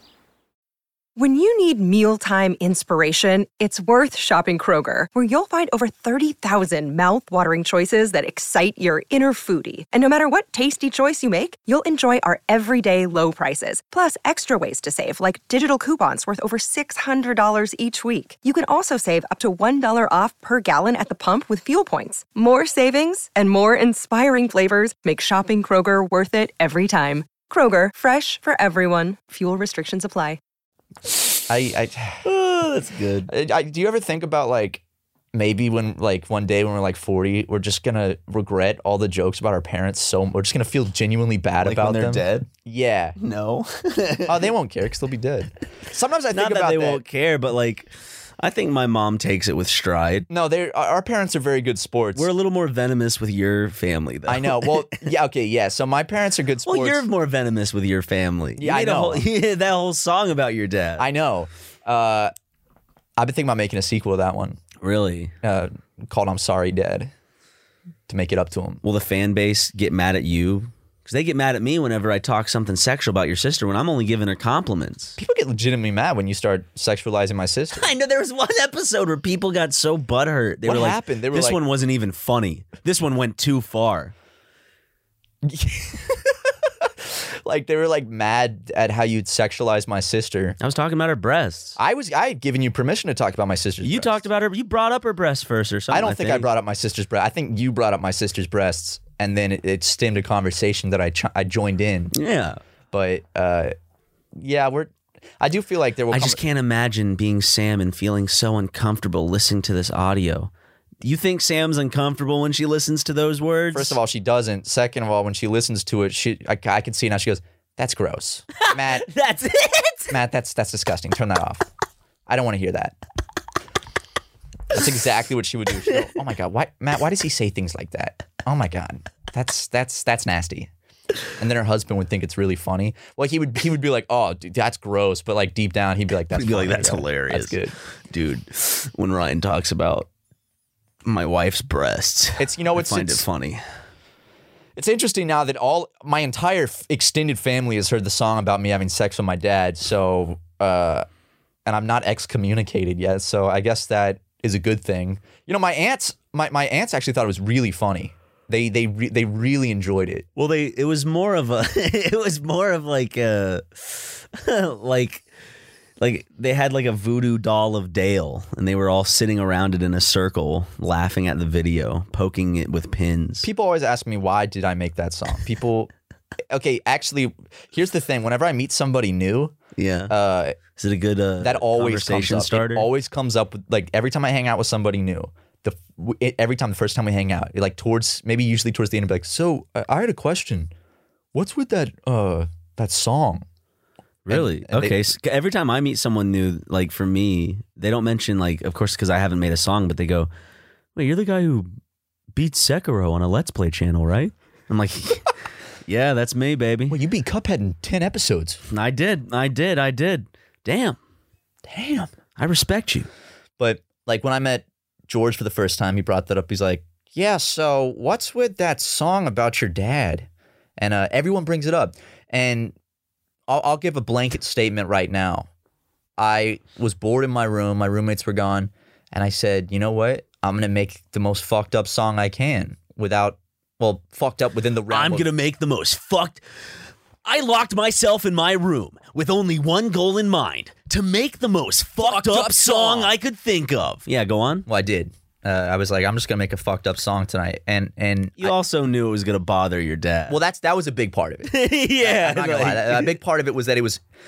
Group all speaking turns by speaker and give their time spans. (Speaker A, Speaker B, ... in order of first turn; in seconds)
Speaker A: 1.1-30.4
Speaker B: 31.5-32.2, 33.3-34.8, 35.3-43.1, 44.2-47.0, 50.3-52.3, 54.3-57.0, 58.6-59.2, 61.0-62.3, 63.2-64.6, 65.4-67.1, 68.1-68.8, 75.2-77.9, 80.6-81.6, 85.4-90.6, 91.8-94.2, 95.9-102.1, 102.9-103.7, 104.3-106.4, 113.7-119.1, 120.1-121.7, 122.3-123.0, 124.7-130.7, 131.4-137.8, 142.4-143.2, 144.8-151.1, 151.7-160.2, 173.4-175.9, 176.5-179.5, 180.1-180.6, 181.4-190.7, 191.3-193.4, 194.3-195.1, 206.9-208.6, 211.7-212.1, 213.6-222.7, 223.5-225.5, 226.2-235.3, 242.0-243.1, 244.7-248.6, 250.3-254.0
Speaker C: 32.2-33.3, 41.6-42.5, 43.2-44.5, 46.3-50.3, 52.1-55.0, 56.6-61.1, 64.8-65.3, 68.8-75.2, 77.7-84.1, 90.6-91.8, 93.8-96.5, 102.1-102.6, 106.1-110.5, 111.0-114.0, 118.6-120.2, 136.3-140.1, 141.0-143.6, 160.3-165.2, 166.0-173.5, 179.8-180.1, 180.8-182.9, 194.2-200.3, 200.9-201.7, 202.3-207.0, 208.7-211.0, 212.4-213.1, 234.9-236.4, 237.2-244.7, 248.4-250.4, 251.5-253.2